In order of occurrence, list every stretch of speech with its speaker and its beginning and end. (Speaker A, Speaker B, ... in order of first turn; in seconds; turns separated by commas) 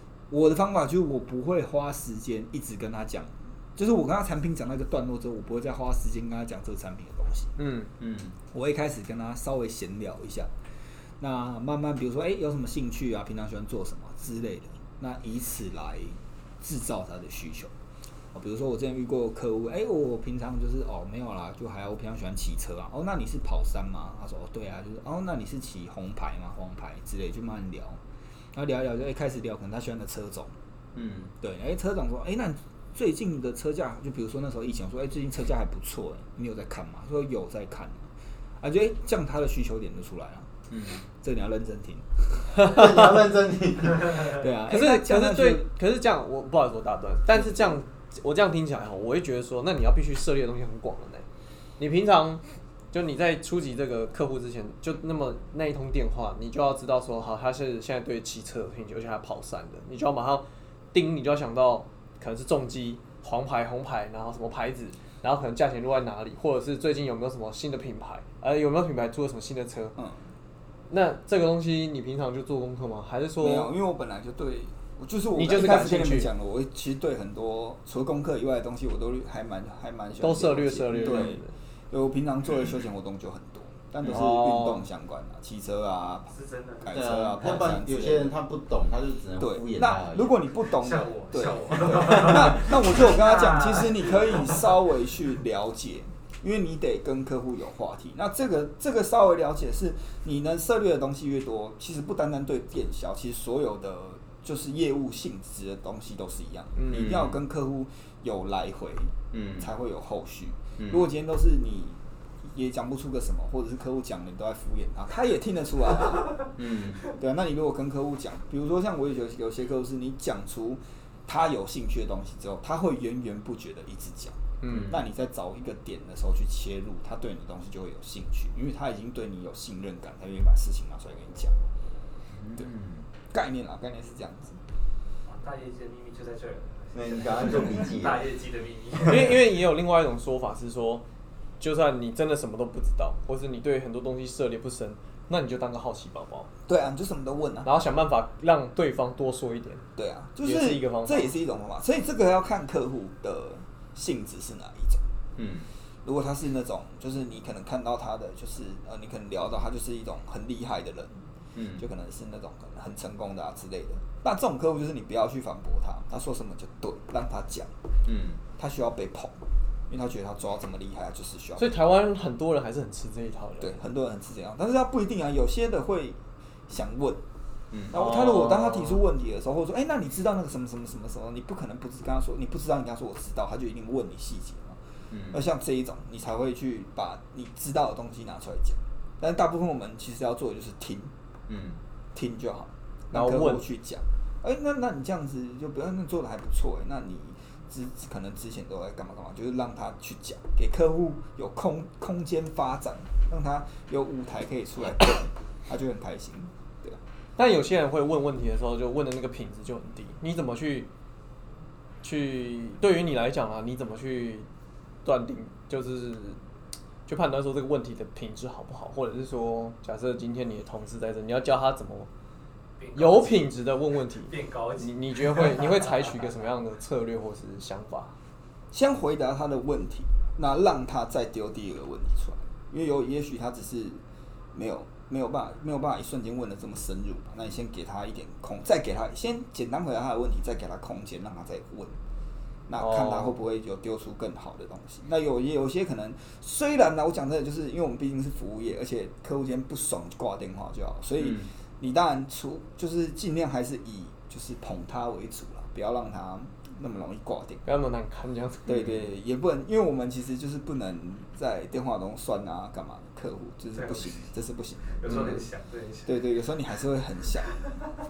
Speaker A: 0.3-7.6, Speaker B: 7.6-7.9, Speaker C: 8.0-8.4, Speaker A: 8.5-10.5, Speaker A: 11.2-17.7, Speaker A: 18.3-28.0, Speaker A: 28.5-30.5, Speaker C: 30.9-31.3, Speaker A: 31.4-38.1, Speaker A: 38.6-40.5, Speaker C: 40.7-41.0, Speaker A: 41.1-43.1, Speaker C: 42.5-44.3, Speaker A: 44.1-45.7, Speaker B: 44.7-51.2, Speaker B: 51.8-70.0, Speaker B: 70.9-73.7, Speaker A: 73.4-86.3, Speaker B: 75.3-76.3, Speaker B: 80.2-81.5, Speaker C: 80.9-81.4, Speaker C: 84.0-84.3, Speaker B: 84.1-84.9, Speaker D: 86.3-86.9, Speaker A: 86.8-88.3, Speaker C: 86.9-90.3, Speaker A: 89.4-116.5, Speaker D: 90.7-94.7, Speaker B: 106.7-107.2, Speaker C: 106.9-107.4, Speaker C: 109.3-109.7, Speaker C: 110.8-111.0, Speaker C: 116.5-117.0, Speaker A: 117.1-131.6, Speaker B: 124.6-124.9, Speaker C: 124.7-125.0, Speaker C: 132.3-133.1, Speaker A: 133.3-134.6, Speaker D: 135.3-139.4, Speaker C: 136.9-138.2, Speaker C: 139.0-139.3, Speaker B: 139.0-141.0, Speaker B: 141.6-146.5, Speaker A: 146.7-147.7, Speaker B: 147.6-149.8, Speaker A: 149.9-155.0, Speaker B: 150.4-151.3, Speaker C: 155.3-155.7, Speaker A: 156.0-161.2, Speaker C: 161.5-161.8, Speaker A: 161.8-167.7, Speaker C: 168.1-168.4, Speaker A: 168.6-169.4, Speaker A: 169.9-171.8, Speaker B: 171.6-173.8, Speaker A: 173.6-177.2, Speaker A: 177.9-191.1, Speaker B: 177.9-179.0, Speaker C: 185.1-185.4, Speaker C: 191.5-191.8, Speaker A: 192.1-207.0, Speaker B: 193.1-193.7, Speaker B: 207.3-210.9, Speaker B: 212.0-214.5, Speaker B: 215.0-216.4, Speaker B: 217.1-222.1, Speaker D: 222.8-223.5, Speaker B: 222.9-228.1, Speaker D: 224.3-226.0, Speaker A: 228.7-234.0, Speaker A: 234.5-242.0, Speaker A: 242.7-257.7, Speaker B: 242.8-243.4, Speaker C: 251.2-251.5, Speaker B: 257.6-259.0, Speaker A: 258.7-265.4, Speaker D: 263.7-264.3, Speaker D: 265.0-266.2, Speaker A: 266.1-267.7